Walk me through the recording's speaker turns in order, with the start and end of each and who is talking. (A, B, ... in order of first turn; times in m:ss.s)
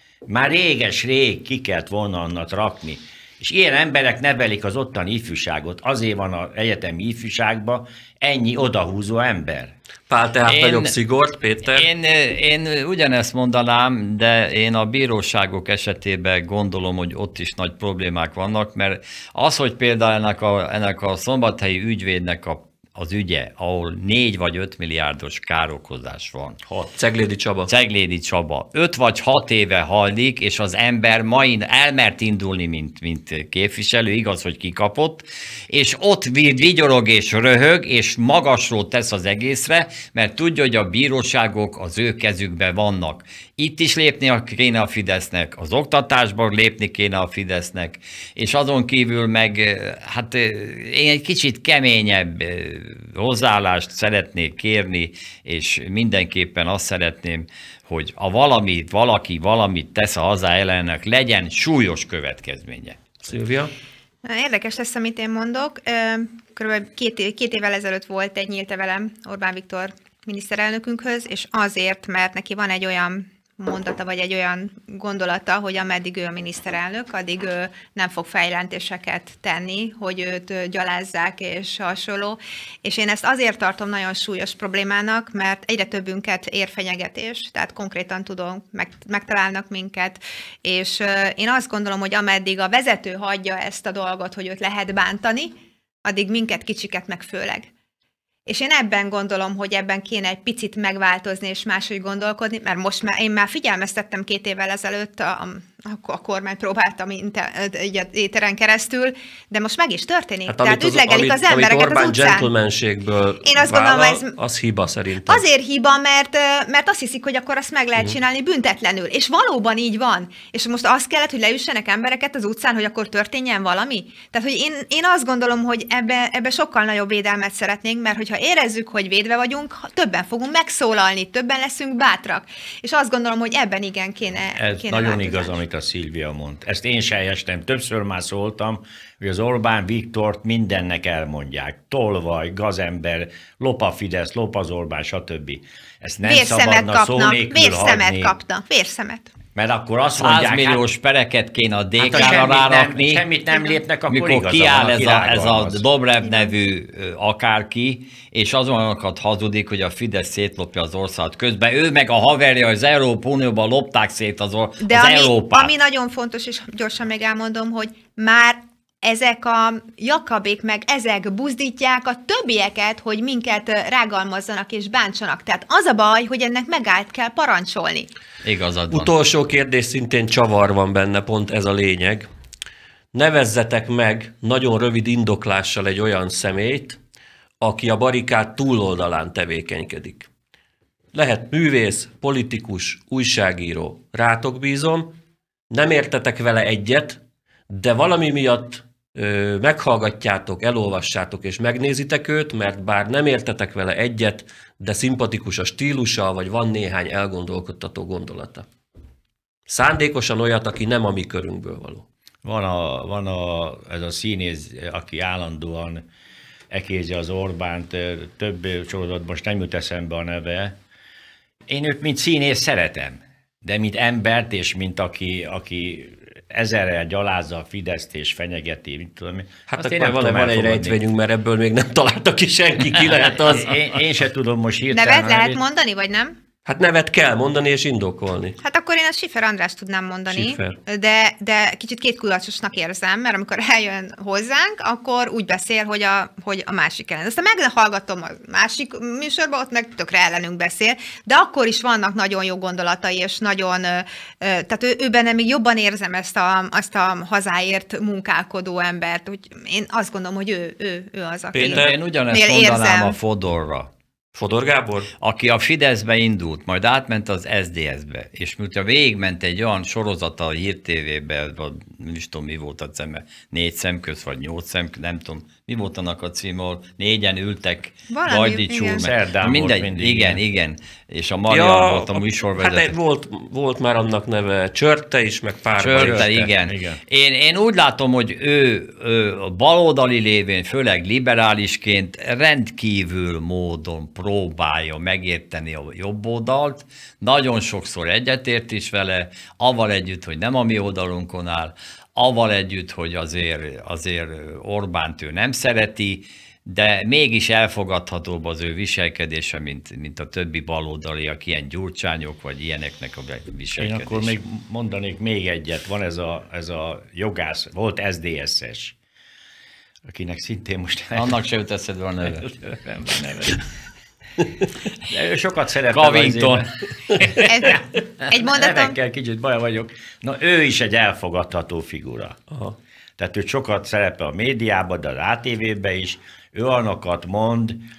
0:00.3-0:09.7 A
0:10.1-0:11.9 B
0:10.5-0:10.9 C
0:11.6-0:26.6 C
0:26.9-0:27.7 B
0:27.7-1:03.0 C
1:03.2-1:03.7 B
1:04.2-1:37.7 D
1:38.5-1:52.5 D
1:50.5-1:55.4 B
1:53.4-1:54.4 D
1:55.3-2:15.6 D
2:14.6-2:28.3 A
2:26.2-2:29.3 D
2:29.6-2:30.8 A
2:30.1-2:33.2 C
2:32.0-2:35.8 A
2:34.1-2:45.7 C
2:36.2-2:36.5 D
2:44.8-2:58.1 D
2:58.4-2:59.1 C
2:58.9-3:02.3 B
3:03.1-3:07.0 B
3:07.6-3:10.3 B
3:11.1-3:15.2 B
3:15.7-3:28.7 B
3:29.7-3:32.0 B
3:32.4-3:36.0 A
3:36.7-3:40.8 A
3:41.7-3:51.0 A
3:49.7-3:53.8 B
3:53.3-3:55.6 A
3:54.9-3:56.4 D
3:56.7-3:58.6 B
3:58.6-4:23.2 D
4:00.3-4:00.8 B
4:21.5-4:22.0 B
4:21.6-4:23.9 C
4:24.4-4:25.1 B
4:25.2-4:42.9 C
4:38.1-4:39.0 D
4:39.0-4:40.4 A
4:41.5-4:46.3 B
4:45.8-5:14.4 C
4:45.9-4:47.0 A
5:13.8-5:19.0 A
5:20.0-5:21.4 A
5:21.1-5:22.5 C
5:22.3-5:23.6 A
5:25.0-5:32.4 A
5:25.9-5:27.3 C
5:27.5-5:29.0 D
5:32.5-5:32.8 B
5:33.2-5:37.8 A